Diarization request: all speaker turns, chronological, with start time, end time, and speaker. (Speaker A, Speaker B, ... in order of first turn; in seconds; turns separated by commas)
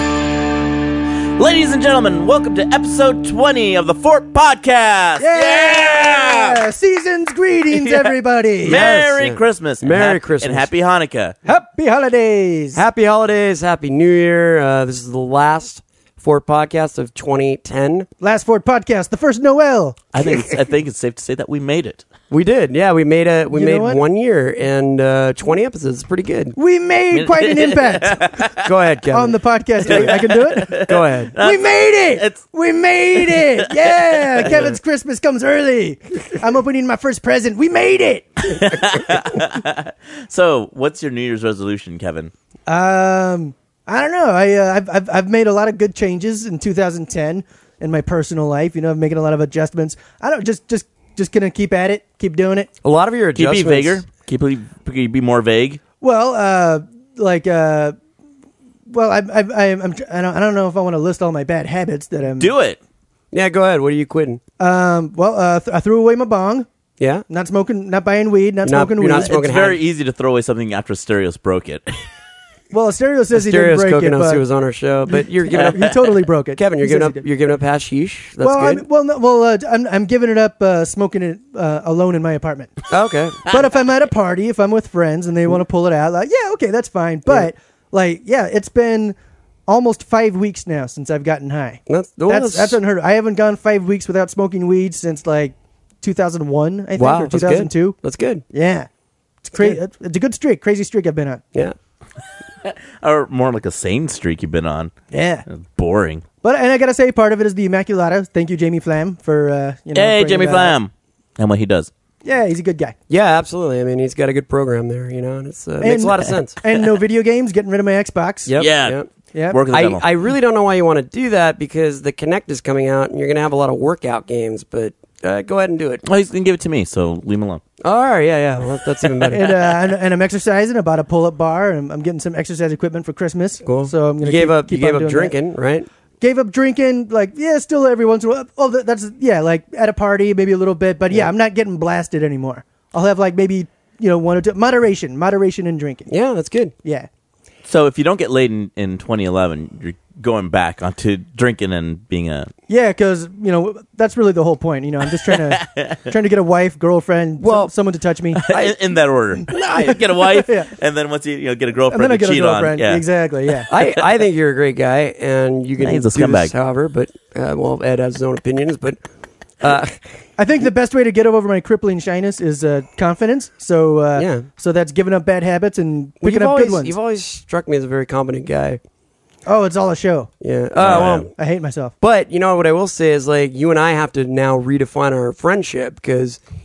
Speaker A: 1.4-6.6, Speaker B: 5.2-8.9, Speaker A: 7.7-11.4, Speaker C: 8.7-10.7, Speaker B: 11.4-12.8, Speaker C: 12.7-18.1, Speaker B: 18.2-20.1, Speaker A: 20.1-22.1, Speaker C: 22.3-26.6, Speaker B: 23.5-24.0, Speaker B: 26.6-28.4, Speaker A: 27.1-28.7, Speaker C: 28.6-31.3, Speaker B: 29.1-38.6, Speaker A: 29.9-32.4, Speaker A: 33.2-33.7, Speaker A: 38.5-42.3, Speaker B: 42.7-52.7, Speaker C: 52.8-54.0, Speaker A: 53.4-55.8, Speaker B: 56.0-58.0, Speaker B: 58.9-62.5, Speaker A: 62.4-62.8, Speaker C: 63.3-64.4, Speaker B: 64.6-66.7, Speaker C: 67.0-67.3, Speaker B: 67.3-69.4, Speaker C: 68.6-69.8, Speaker A: 69.2-71.9, Speaker B: 72.7-74.4, Speaker C: 73.3-76.0, Speaker B: 75.5-77.2, Speaker C: 76.5-78.8, Speaker B: 78.4-82.8, Speaker C: 82.9-83.6, Speaker B: 83.5-89.2, Speaker B: 89.7-98.0, Speaker C: 91.9-92.8, Speaker C: 97.0-98.4, Speaker B: 98.5-98.9, Speaker B: 99.4-101.5, Speaker C: 99.5-99.8, Speaker A: 102.6-104.9, Speaker B: 105.1-105.5, Speaker A: 105.5-106.2, Speaker B: 106.4-110.8, Speaker A: 110.0-111.9, Speaker B: 112.2-113.0, Speaker C: 113.1-116.6, Speaker B: 115.8-118.5, Speaker C: 118.5-119.1, Speaker A: 118.6-120.1, Speaker C: 119.7-126.0, Speaker A: 126.1-127.6, Speaker C: 127.8-129.7, Speaker B: 129.3-135.3, Speaker C: 133.6-135.9, Speaker B: 136.2-146.1, Speaker C: 146.1-146.7, Speaker A: 147.7-152.5, Speaker B: 152.7-158.4, Speaker A: 155.2-156.0, Speaker C: 157.4-157.7, Speaker A: 158.4-163.0, Speaker B: 159.4-160.7, Speaker B: 161.9-163.7, Speaker C: 163.7-169.0, Speaker A: 165.8-166.5, Speaker C: 169.6-170.0, Speaker B: 170.4-176.9, Speaker C: 174.2-174.5, Speaker C: 176.2-178.8, Speaker B: 179.5-180.3, Speaker C: 180.4-181.3, Speaker A: 180.8-181.3, Speaker B: 181.0-181.9, Speaker C: 182.0-186.4